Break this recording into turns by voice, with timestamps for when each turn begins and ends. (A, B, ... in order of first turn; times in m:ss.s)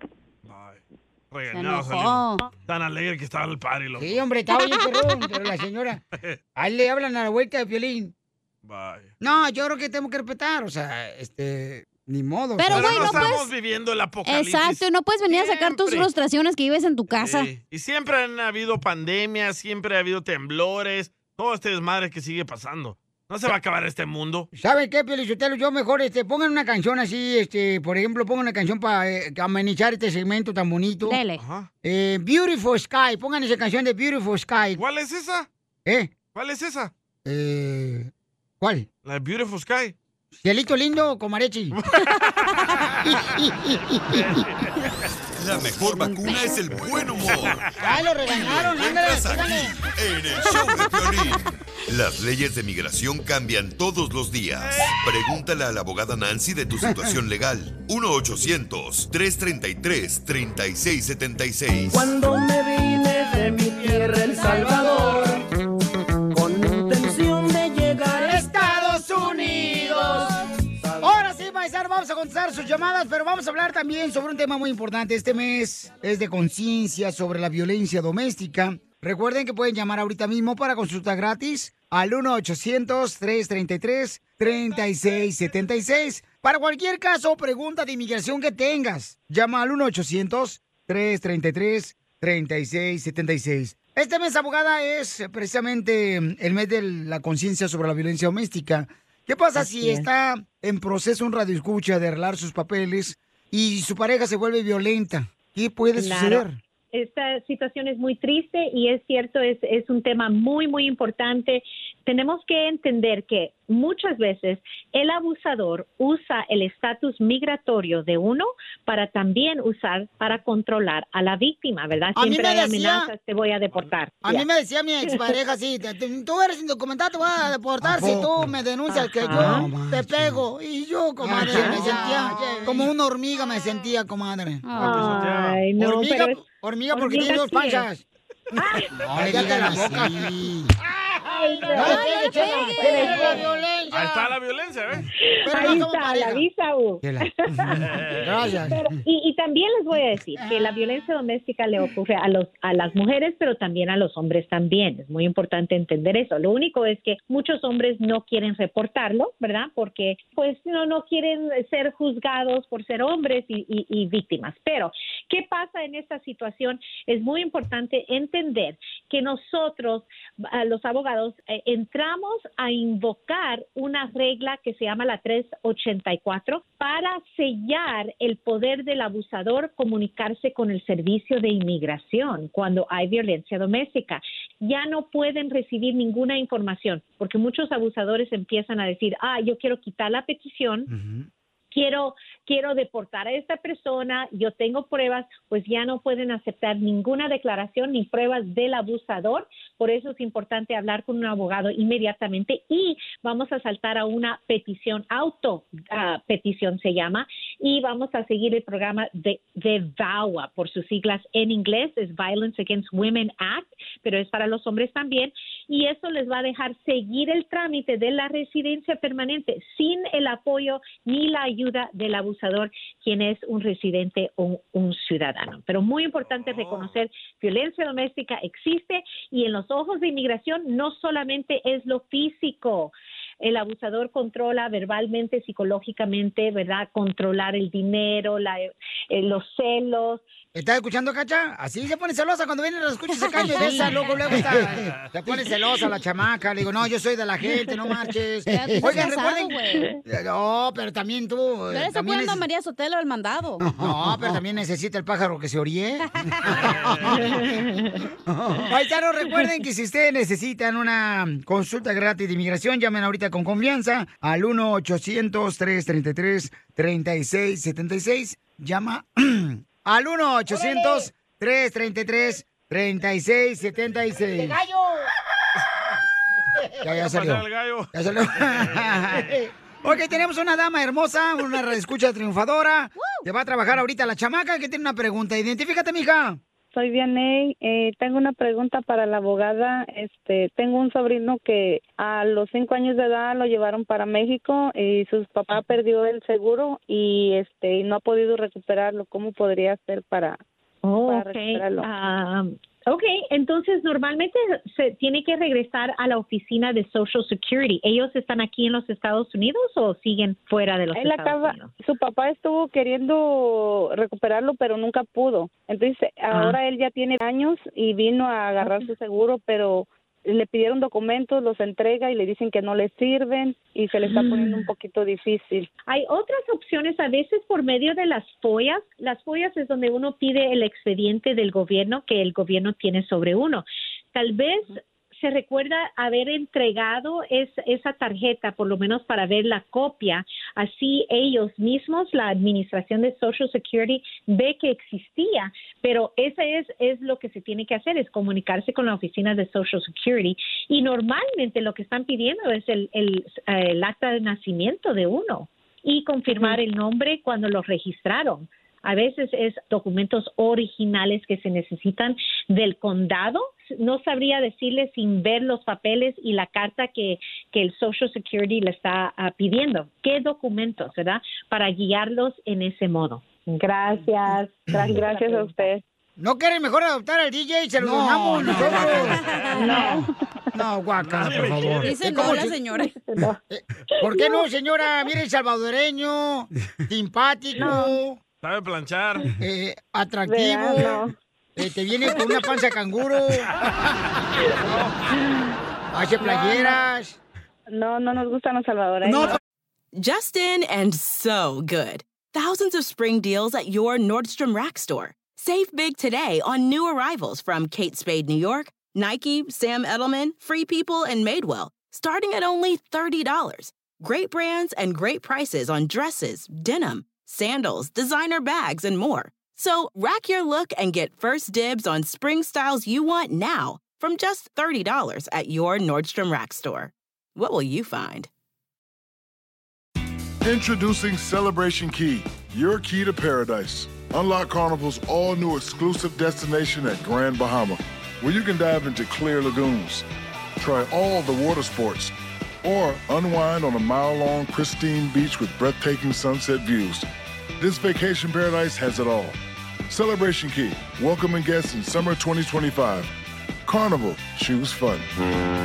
0:00.4-0:04.2 A
0:01.5-0:02.4 B
0:04.0-0:06.0 C
0:04.6-0:04.9 B
0:06.6-0:08.1 C
0:08.6-0:09.1 A
0:09.2-0:13.3 C
0:12.6-0:13.5 B
0:12.7-0:16.1 A
0:14.2-0:17.5 B
0:17.1-0:24.5 A
0:24.5-0:31.2 C
0:31.0-0:31.4 B
0:31.4-0:31.7 A
0:31.8-0:34.8 C
0:34.8-0:35.5 A
0:35.9-0:36.1 C
0:36.3-0:36.9 A
0:37.2-0:38.9 C
0:39.0-0:39.9 A
0:40.4-0:41.8 C
0:41.8-0:42.1 A
0:43.0-0:44.1 C
0:44.0-0:44.7 A
0:45.4-0:47.6 D
0:47.2-0:47.9 A
0:47.8-0:49.7 C
0:48.3-1:02.0 D
0:54.6-0:55.0 A
1:01.9-1:05.4 E
1:06.3-1:08.4 E
1:08.2-1:10.3 C
1:11.0-1:46.6 C
1:39.6-1:40.1 F
1:45.9-2:04.5 F
2:02.2-2:03.1 C
2:04.2-2:14.6 C
2:05.1-2:05.3 F
2:08.9-2:09.8 F
2:11.3-2:12.9 F
2:14.6-2:15.2 B
2:14.8-2:16.3 A
2:14.8-2:17.9 F
2:16.1-2:18.0 C
2:18.6-2:20.1 F
2:19.1-2:20.7 C
2:21.2-2:23.5 F
2:21.7-2:24.3 C
2:21.8-2:23.5 B
2:23.9-2:25.1 A
2:25.4-2:26.4 C
2:25.4-2:27.8 F
2:27.0-2:28.9 C
2:27.8-2:28.5 A
2:28.5-3:10.9 F
3:10.9-3:11.3 C
3:11.7-4:00.2 F
3:46.2-3:47.0 A
4:00.6-4:12.4 C
4:03.1-4:04.3 B
4:04.4-4:05.1 A
4:08.5-4:09.9 B
4:11.7-4:13.7 B
4:13.7-4:17.5 C
4:16.6-4:17.4 A
4:18.3-4:34.6 C
4:36.8-4:39.3 A
4:36.8-4:46.4 C
4:46.7-5:00.4 G
5:00.8-5:11.7 F
5:01.1-5:01.9 G
5:10.9-5:25.7 G
5:16.3-5:16.6 F
5:24.0-5:24.6 F
5:25.9-6:15.7 F
6:14.7-6:15.8 G
6:16.2-6:22.5 C
6:18.4-6:19.9 B
6:18.8-6:19.4 A
6:19.6-6:20.1 G
6:21.0-6:22.0 A
6:21.8-6:22.9 B
6:22.7-6:23.4 F
6:23.5-6:28.2 C
6:24.0-6:24.4 F
6:28.4-6:29.3 A
6:29.4-6:31.0 C
6:30.3-6:31.1 G
6:31.6-6:33.5 C
6:35.9-6:37.2 C
6:36.2-6:36.8 G
6:37.7-6:39.4 G
6:39.0-6:39.4 C
6:39.9-7:08.3 H
7:10.4-7:20.1 I
7:20.6-7:27.1 I
7:27.6-7:29.4 I
7:29.9-7:33.1 I
7:33.6-7:35.1 I